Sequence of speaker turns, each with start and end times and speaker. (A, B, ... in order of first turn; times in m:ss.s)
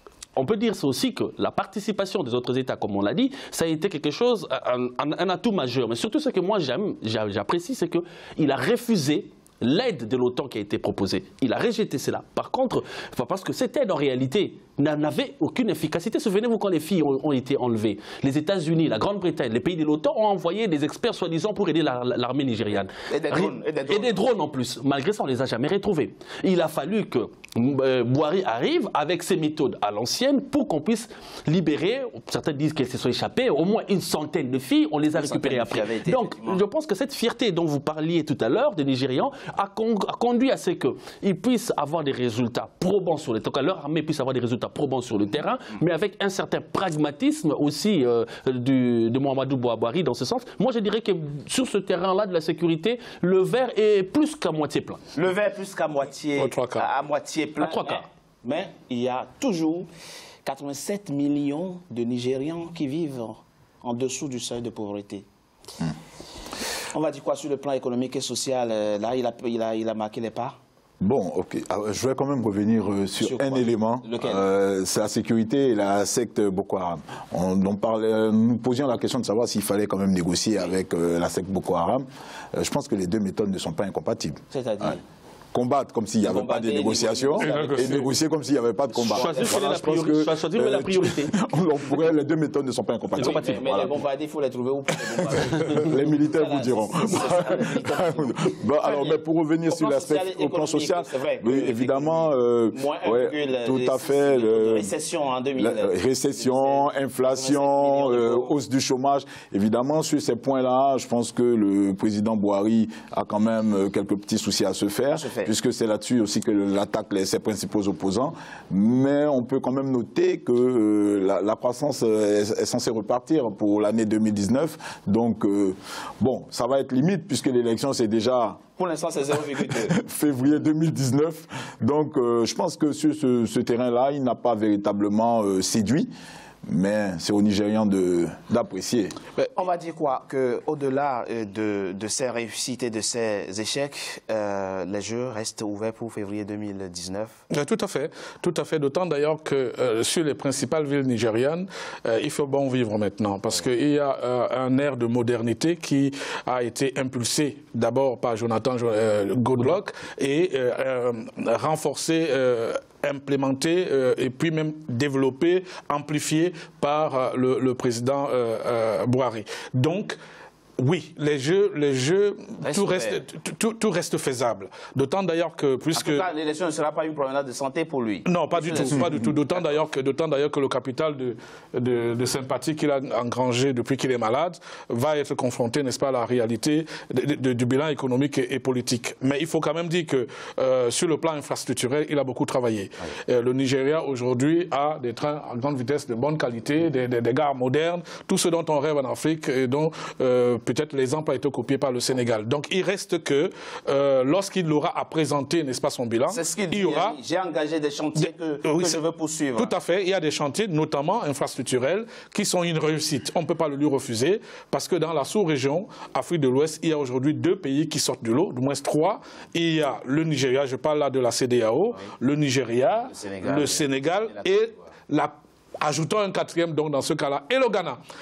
0:00.4-0:55.0 A
0:23.1-0:24.2 B
0:35.1-0:36.6 B
0:55.1-0:59.9 B
0:56.4-0:56.9 C
0:57.6-0:58.0 A
1:00.4-1:05.2 B
1:06.9-1:10.6 B
1:11.0-1:25.0 D
1:13.2-1:14.4 B
1:24.5-1:25.0 B
1:25.5-1:34.0 D
1:26.2-1:28.0 B
1:27.4-1:28.1 C
1:29.0-1:32.1 A
1:29.2-1:29.7 B
1:33.1-1:33.9 A
1:33.4-1:48.5 B
1:35.6-1:44.9 D
1:45.6-2:08.6 D
1:55.1-1:55.5 B
2:08.8-2:09.9 B
2:09.9-2:16.1 D
2:16.6-2:19.1 D
2:19.5-2:27.3 B
2:27.5-2:50.2 C
2:50.8-2:56.2 C
2:52.6-2:53.2 B
2:55.9-2:59.7 B
2:58.2-3:27.2 C
3:26.3-3:29.7 B
3:28.2-3:29.0 C
3:29.6-3:48.0 C
3:43.1-3:44.7 B